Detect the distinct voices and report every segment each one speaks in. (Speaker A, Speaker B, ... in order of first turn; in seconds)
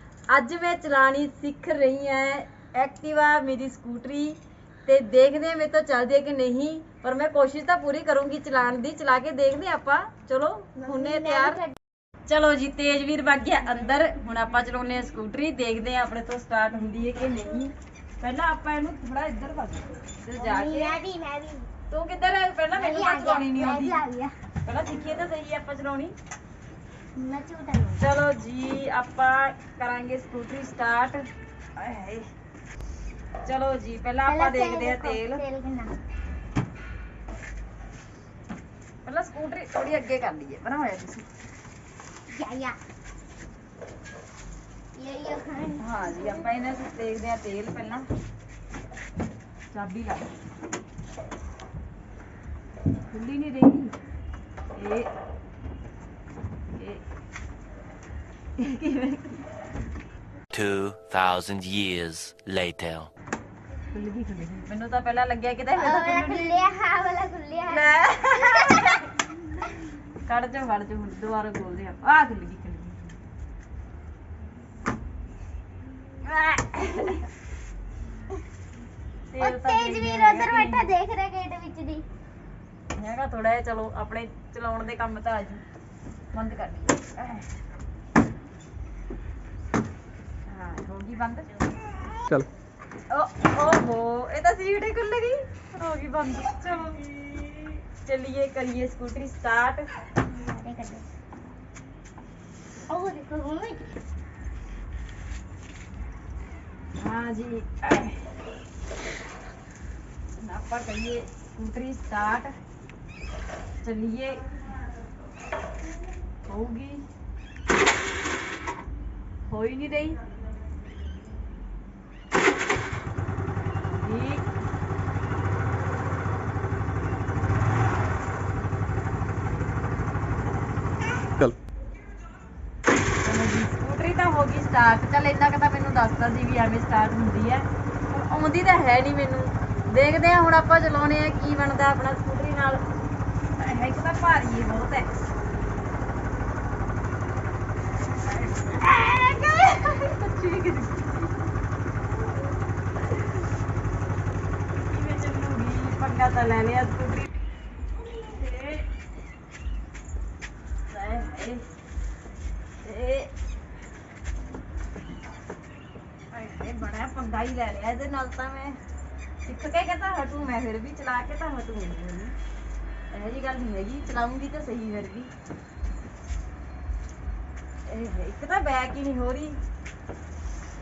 Speaker A: 0.3-11.6, 12.3-21.0, 21.9-24.0, 24.6-26.1, 28.0-31.3, 31.8-32.3, 33.5-35.4, 39.1-41.3, 45.8-48.1, 49.7-50.3, 53.1-53.9, 54.8-55.1, 56.8-57.0, 58.6-59.4, 63.9-66.5, 67.7-69.1, 70.3-73.1, 76.2-77.3, 79.3-80.9, 83.0-85.6, 86.3-87.5, 90.5-91.5, 93.1-97.0, 98.0-99.9, 107.0-108.2, 110.4-112.5, 113.8-114.4, 116.5-117.0, 119.5-120.2, 123.9-124.5, 133.2-142.8, 143.6-145.1, 148.2-151.5, 154.8-157.3, 158.1-158.8, 160.9-161.6, 162.8-163.3, 166.3-168.8, 169.4-172.3, 173.1-175.3, 177.9-179.6
Speaker B: 10.8-11.8, 20.4-21.7, 22.7-24.3, 27.2-28.1, 34.3-35.9, 42.3-42.8, 45.0-46.5, 65.8-68.7, 79.4-82.0, 100.3-101.0, 102.9-103.9
Speaker C: 60.5-63.1